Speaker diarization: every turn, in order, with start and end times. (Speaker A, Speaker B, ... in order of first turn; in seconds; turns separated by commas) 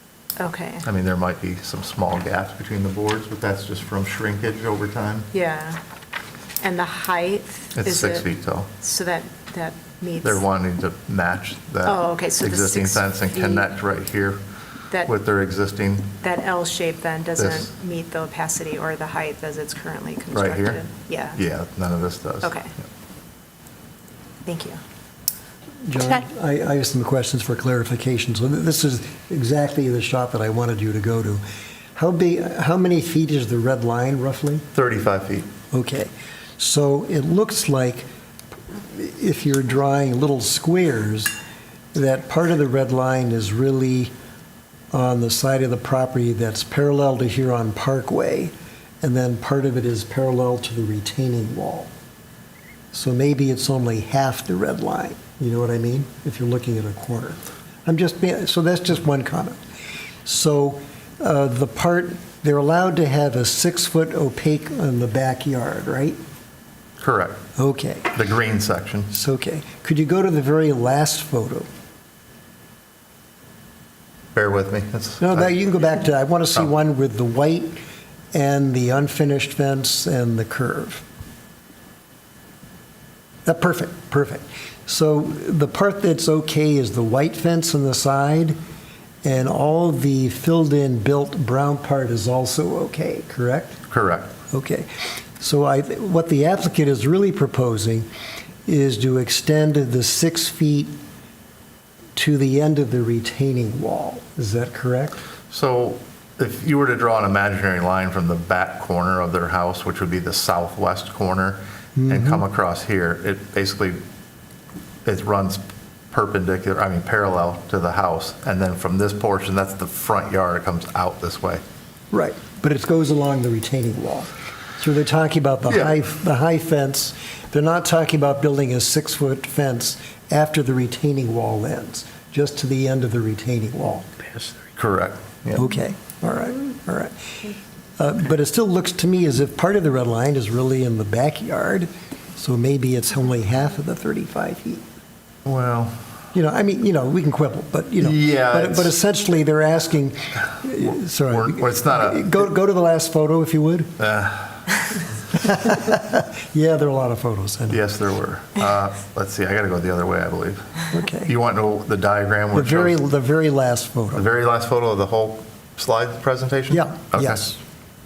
Speaker A: 0.4-0.9, Speaker B: 0.8-5.3, Speaker A: 5.3-5.8, Speaker A: 6.6-8.2, Speaker B: 7.8-8.7, Speaker A: 8.8-10.4, Speaker B: 10.2-14.4, Speaker A: 11.8-13.7, Speaker B: 15.0-16.1, Speaker A: 16.2-21.4, Speaker B: 17.4-17.7, Speaker B: 20.3-20.8, Speaker B: 21.4-22.6, Speaker A: 22.4-22.7, Speaker A: 24.4-24.8, Speaker C: 25.9-31.4, Speaker C: 31.9-34.6, Speaker B: 34.7-35.5, Speaker C: 35.7-38.1, Speaker C: 38.8-41.3, Speaker C: 41.9-44.1, Speaker C: 44.9-51.9, Speaker C: 52.9-59.6, Speaker C: 60.2-66.2, Speaker B: 67.0-67.4, Speaker C: 67.6-68.1, Speaker B: 68.1-69.1, Speaker C: 69.1-71.7, Speaker B: 74.3-75.5, Speaker C: 75.2-77.8, Speaker C: 78.3-81.0, Speaker C: 83.5-88.6, Speaker C: 89.2-93.8, Speaker B: 93.9-94.3, Speaker C: 94.5-94.9, Speaker C: 95.4-98.1, Speaker C: 98.7-100.9, Speaker C: 102.2-105.2, Speaker B: 105.5-114.0, Speaker C: 112.0-112.4, Speaker B: 115.0-121.6, Speaker C: 122.1-134.2, Speaker B: 125.7-125.9, Speaker B: 134.8-135.7, Speaker C: 135.5-144.8, Speaker B: 145.4-146.0, Speaker C: 146.3-153.9, Speaker B: 148.0-148.9, Speaker B: 151.2-152.4, Speaker B: 154.0-154.8, Speaker C: 155.3-157.8, Speaker B: 157.7-163.0, Speaker C: 160.9-161.3, Speaker C: 162.5-164.3, Speaker B: 164.2-167.4, Speaker C: 166.7-167.6